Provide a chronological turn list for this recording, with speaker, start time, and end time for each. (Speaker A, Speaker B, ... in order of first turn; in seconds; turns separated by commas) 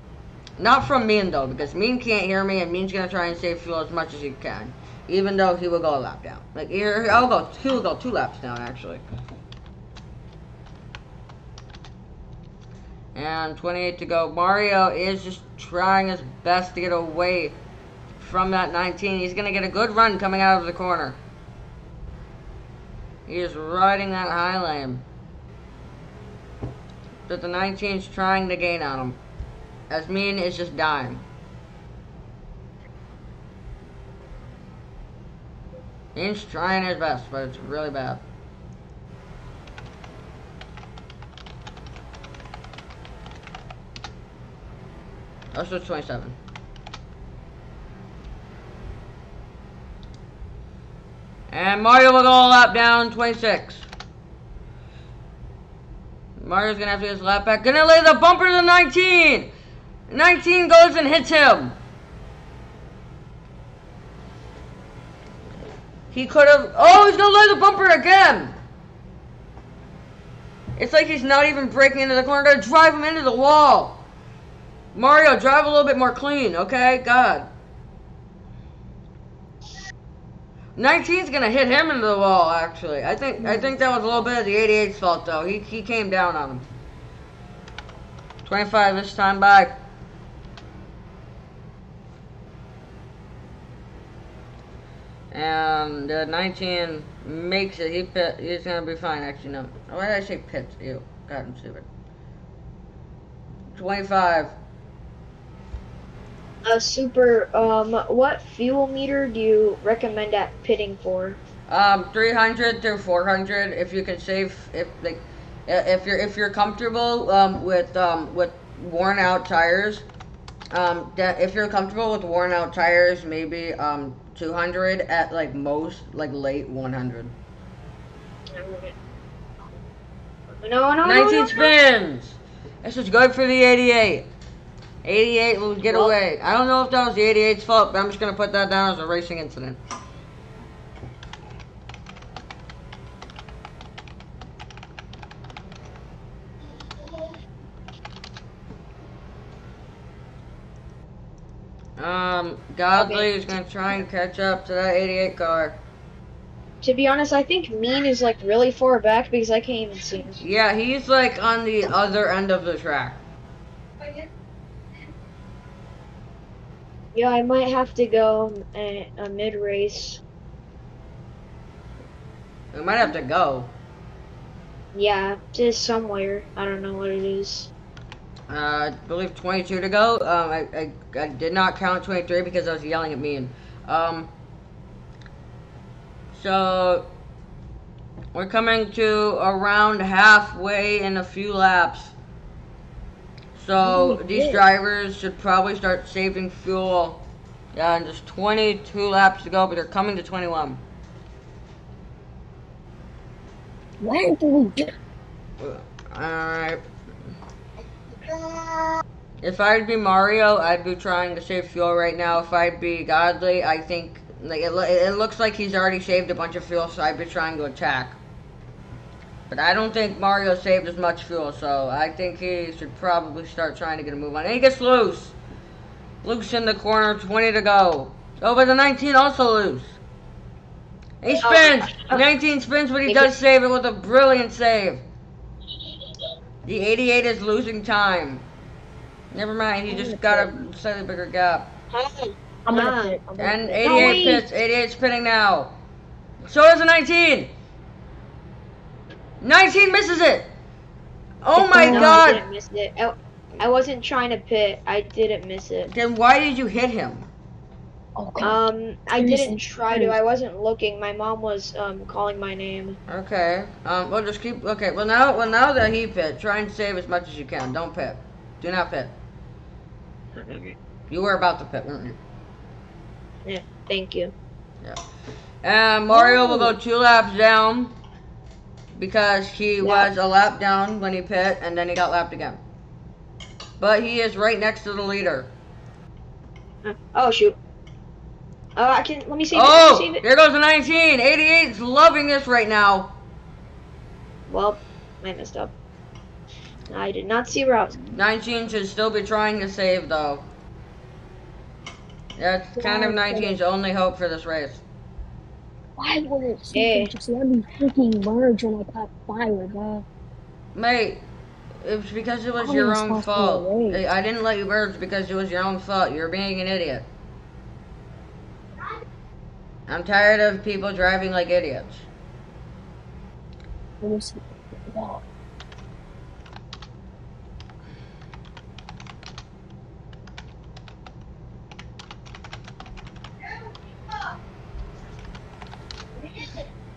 Speaker A: 0.6-9.0, Speaker A: 13.1-17.6, Speaker A: 18.2-21.2, Speaker A: 23.3-25.0, Speaker A: 27.3-29.2, Speaker A: 29.9-31.2, Speaker A: 36.1-38.2, Speaker A: 45.5-46.4, Speaker A: 51.5-53.9, Speaker A: 56.4-59.5, Speaker A: 60.1-61.8, Speaker A: 66.1-68.5, Speaker A: 70.8-74.0, Speaker A: 74.9-77.5, Speaker A: 80.8-86.7, Speaker B: 83.4-83.7, Speaker A: 88.4-89.8, Speaker A: 95.3-101.9, Speaker A: 103.7-104.5, Speaker C: 106.6-111.4, Speaker A: 111.7-120.0, Speaker A: 120.7-127.3, Speaker C: 128.5-128.9, Speaker C: 130.6-131.7, Speaker A: 131.0-134.3, Speaker A: 135.0-139.8, Speaker C: 135.9-136.1, Speaker A: 152.0-155.8, Speaker C: 152.9-153.3, Speaker C: 156.8-160.4, Speaker A: 160.4-163.2, Speaker C: 167.1-170.2, Speaker A: 172.7-173.7, Speaker C: 174.9-177.7, Speaker A: 178.5-184.3, Speaker A: 186.3-187.1, Speaker A: 188.3-192.1, Speaker A: 193.5-200.8, Speaker B: 193.8-194.6, Speaker B: 204.0-204.9, Speaker A: 205.6-206.8, Speaker C: 208.2-209.0, Speaker A: 209.4-218.2, Speaker A: 219.5-225.3, Speaker A: 226.2-230.0, Speaker A: 231.2-235.0, Speaker C: 231.4-232.2, Speaker C: 233.1-233.3, Speaker A: 236.7-238.4, Speaker A: 239.3-241.7, Speaker B: 239.9-240.5, Speaker C: 241.9-243.2, Speaker B: 242.7-244.4, Speaker A: 243.4-245.7, Speaker C: 243.8-244.4, Speaker A: 246.4-247.5, Speaker A: 249.4-250.5, Speaker A: 251.4-252.4, Speaker B: 251.6-252.2, Speaker C: 251.8-255.9, Speaker A: 255.9-257.3, Speaker B: 258.2-258.6, Speaker C: 258.4-263.0, Speaker B: 259.1-260.1, Speaker A: 263.1-269.1, Speaker C: 270.3-270.8, Speaker A: 271.1-272.2, Speaker C: 273.4-274.3, Speaker A: 275.6-277.9, Speaker C: 276.3-276.7, Speaker A: 278.9-282.6, Speaker C: 279.8-280.1, Speaker A: 283.8-285.5, Speaker C: 286.8-287.6, Speaker C: 288.8-290.2, Speaker A: 289.5-293.1, Speaker C: 294.5-295.7, Speaker C: 296.9-298.0, Speaker A: 298.1-300.5, Speaker A: 302.4-304.8, Speaker B: 302.8-303.6, Speaker B: 306.0-310.0, Speaker C: 306.7-307.1, Speaker A: 310.7-311.2, Speaker A: 311.8-317.1, Speaker B: 312.6-314.0, Speaker A: 319.9-322.1, Speaker B: 324.0-325.2, Speaker C: 336.3-336.6